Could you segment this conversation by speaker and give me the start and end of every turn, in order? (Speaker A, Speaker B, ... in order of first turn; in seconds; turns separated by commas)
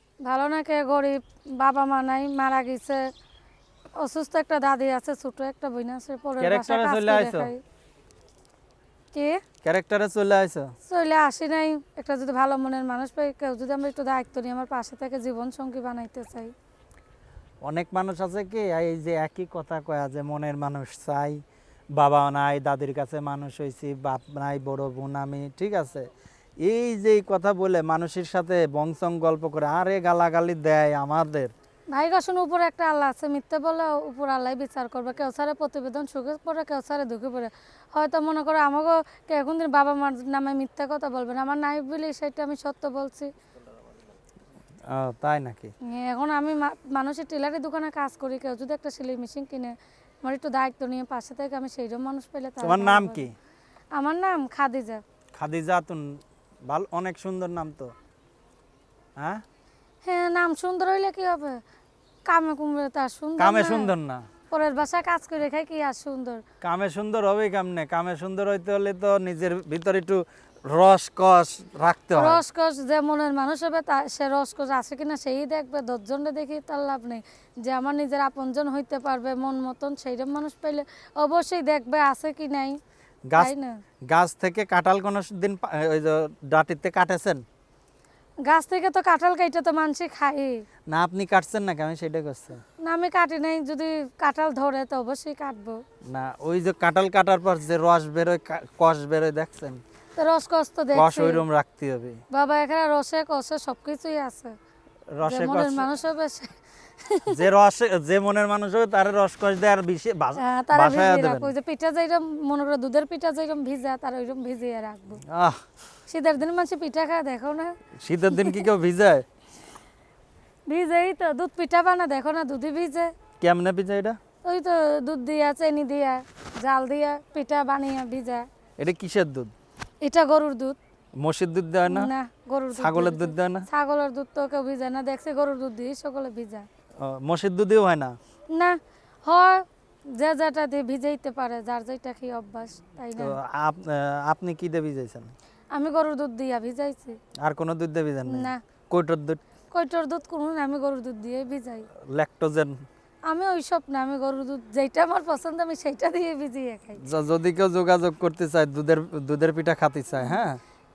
Speaker A: 0.2-3.0, Speaker A: 4.0-7.6, Speaker B: 6.4-7.5, Speaker A: 9.1-9.4, Speaker B: 9.6-10.7, Speaker A: 10.8-16.5, Speaker B: 17.6-21.4, Speaker B: 21.9-26.1, Speaker B: 26.6-31.5, Speaker A: 31.9-43.3, Speaker B: 44.8-45.7, Speaker A: 45.9-53.3, Speaker B: 52.6-53.3, Speaker A: 54.0-55.0, Speaker B: 55.4-57.9, Speaker B: 59.2-59.4, Speaker A: 60.0-61.6, Speaker A: 62.3-63.9, Speaker B: 63.4-64.4, Speaker A: 64.5-66.4, Speaker B: 66.6-72.4, Speaker A: 72.1-82.8, Speaker A: 83.3-83.8, Speaker B: 84.1-87.4, Speaker A: 88.4-90.6, Speaker B: 90.9-92.6, Speaker A: 92.8-95.8, Speaker B: 96.1-99.8, Speaker A: 100.2-101.4, Speaker B: 100.9-102.2, Speaker A: 102.3-104.5, Speaker B: 105.1-105.9, Speaker A: 105.2-107.4, Speaker B: 107.3-111.5, Speaker A: 110.3-115.2, Speaker B: 115.2-115.6, Speaker A: 116.1-118.7, Speaker B: 117.9-119.2, Speaker A: 120.7-123.1, Speaker B: 123.4-124.2, Speaker A: 124.4-128.4, Speaker B: 128.8-129.5, Speaker A: 130.0-130.8, Speaker B: 131.2-132.1, Speaker A: 131.9-136.6, Speaker B: 132.7-133.7, Speaker B: 137.0-138.1, Speaker A: 138.5-143.3, Speaker B: 143.2-145.3, Speaker A: 145.7-147.2, Speaker B: 147.4-149.4, Speaker A: 148.2-148.6, Speaker A: 149.7-151.9, Speaker B: 151.9-152.8, Speaker A: 153.3-157.0, Speaker B: 157.0-160.6, Speaker A: 160.2-160.4